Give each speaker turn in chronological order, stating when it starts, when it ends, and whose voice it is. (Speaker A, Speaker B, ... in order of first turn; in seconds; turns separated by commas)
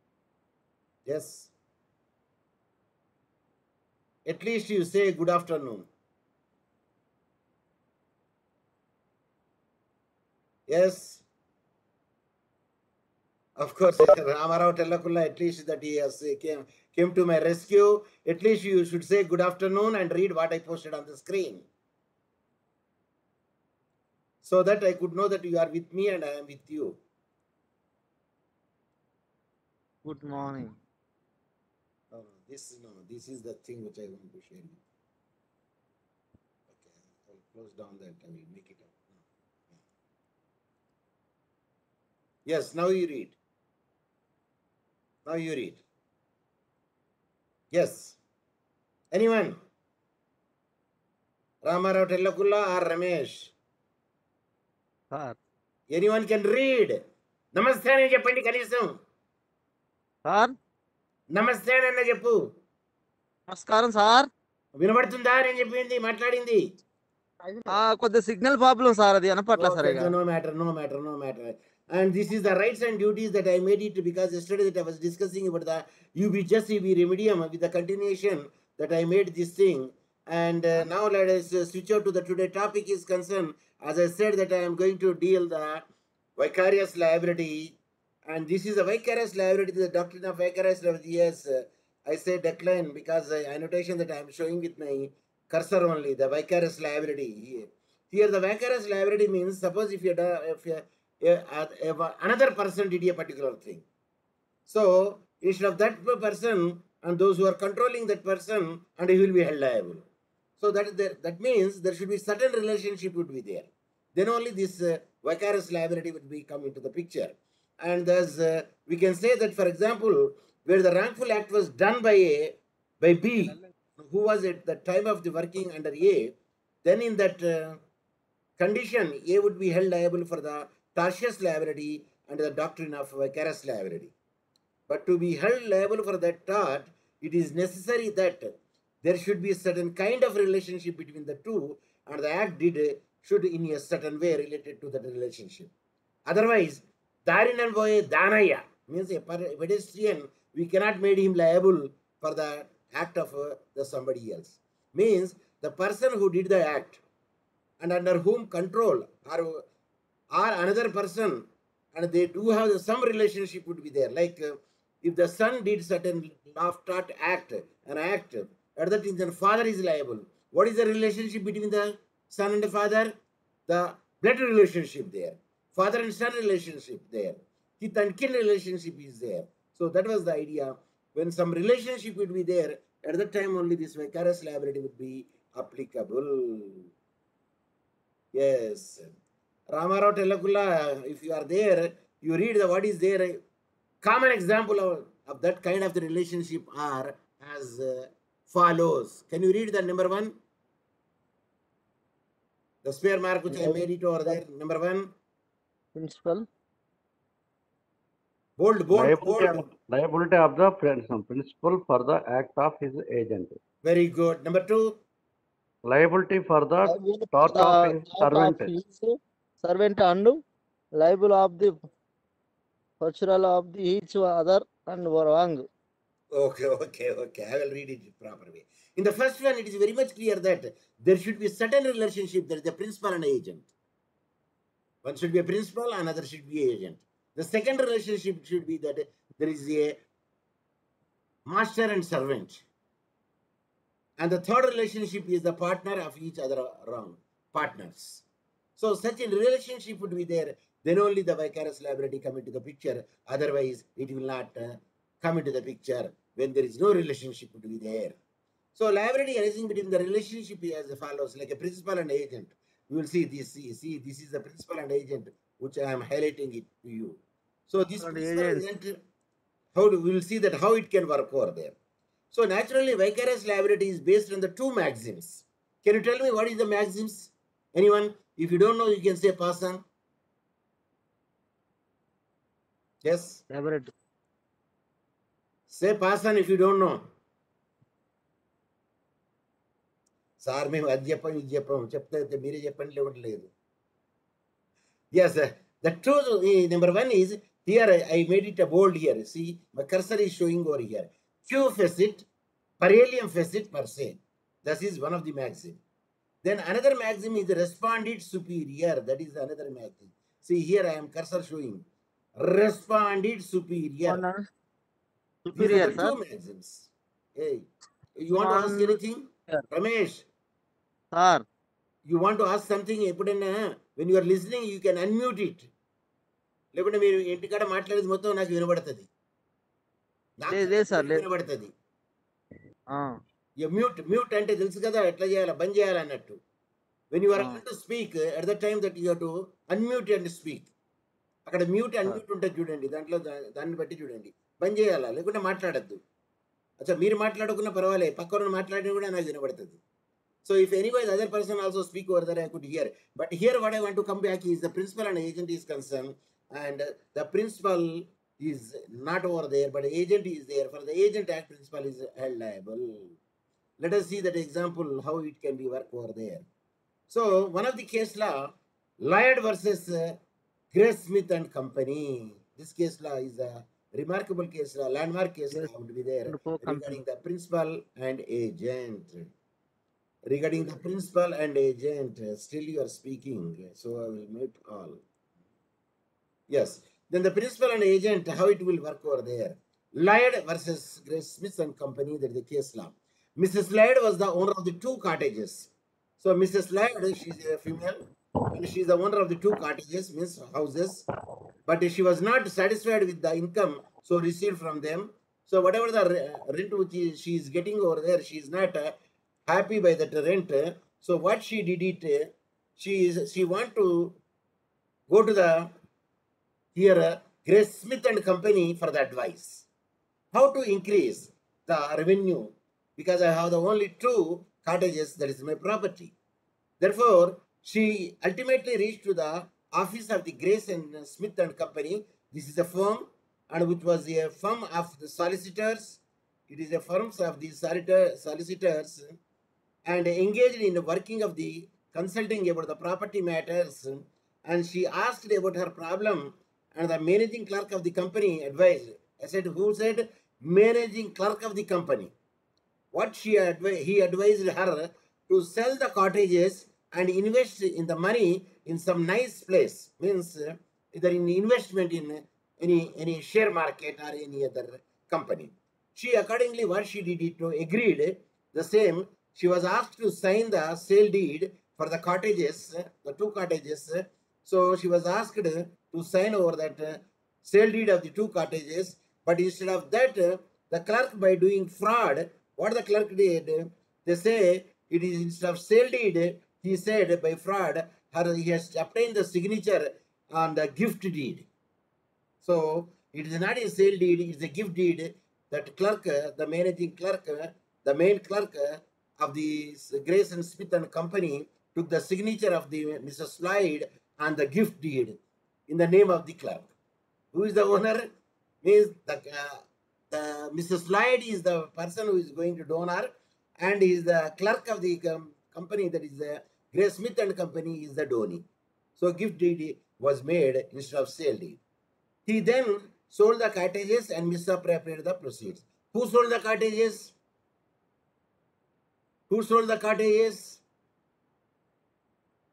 Speaker A: 1.1-1.5, Speaker A: 4.2-5.9, Speaker A: 10.7-11.2, Speaker A: 13.6-21.6, Speaker A: 24.4-27.0, Speaker B: 30.0-30.7, Speaker A: 32.1-34.8, Speaker A: 36.7-39.8, Speaker A: 42.5-43.4, Speaker A: 45.2-45.8, Speaker A: 47.7-48.2, Speaker A: 49.1-49.6, Speaker A: 51.6-53.5, Speaker B: 55.1-55.4, Speaker A: 55.9-57.0, Speaker A: 57.5-59.0, Speaker B: 60.2-60.5, Speaker A: 61.3-62.4, Speaker B: 63.5-64.3, Speaker A: 64.7-66.8, Speaker B: 67.7-70.1, Speaker A: 69.5-85.8, Speaker A: 86.4-87.8, Speaker A: 88.3-103.8, Speaker A: 104.7-110.0, Speaker A: 110.6-127.8, Speaker A: 128.6-134.1, Speaker A: 134.9-145.7, Speaker A: 146.3-157.0, Speaker A: 157.8-159.6, Speaker A: 160.3-173.1, Speaker A: 173.7-186.9, Speaker A: 188.3-189.1, Speaker A: 189.7-193.4, Speaker A: 194.0-200.3, Speaker A: 202.8-205.1, Speaker B: 203.5-203.8, Speaker B: 205.9-206.5, Speaker A: 208.6-209.6, Speaker C: 208.9-213.6, Speaker A: 213.8-215.0, Speaker C: 215.8-218.7, Speaker B: 216.8-220.4, Speaker B: 221.0-221.8, Speaker B: 223.0-225.7, Speaker A: 226.3-233.7, Speaker A: 235.0-240.0, Speaker A: 241.5-242.6, Speaker A: 244.2-248.2, Speaker A: 248.8-258.2, Speaker A: 258.7-269.0, Speaker B: 268.0-268.6, Speaker A: 269.7-271.7, Speaker A: 272.3-279.8, Speaker A: 283.0-283.4, Speaker B: 283.5-283.9, Speaker A: 285.7-287.0, Speaker A: 290.4-293.5, Speaker A: 295.1-302.3, Speaker A: 302.8-305.8, Speaker A: 306.4-311.8, Speaker A: 312.4-314.2, Speaker B: 314.1-314.4, Speaker B: 315.5-316.1, Speaker A: 315.5-317.7, Speaker A: 318.2-320.2, Speaker B: 318.4-318.9, Speaker B: 321.1-321.4, Speaker A: 322.0-325.7, Speaker A: 326.7-329.1, Speaker A: 330.4-331.7, Speaker B: 330.5-331.2, Speaker A: 333.6-336.4, Speaker A: 337.1-340.7, Speaker B: 337.4-337.6, Speaker A: 341.4-346.0, Speaker A: 346.8-349.8, Speaker A: 350.4-363.2, Speaker A: 363.8-366.5, Speaker A: 367.1-370.2, Speaker A: 370.7-379.3, Speaker B: 376.3-377.0, Speaker A: 380.2-385.0, Speaker A: 386.5-401.1, Speaker A: 401.7-408.9, Speaker A: 409.4-414.2, Speaker A: 415.1-415.7, Speaker A: 416.7-419.6, Speaker A: 420.3-426.1, Speaker A: 426.8-439.2, Speaker A: 439.9-452.1, Speaker A: 452.9-491.5, Speaker A: 492.4-506.7, Speaker A: 507.3-508.1, Speaker A: 508.6-518.5, Speaker A: 519.0-521.6, Speaker A: 522.2-527.1, Speaker A: 529.3-530.6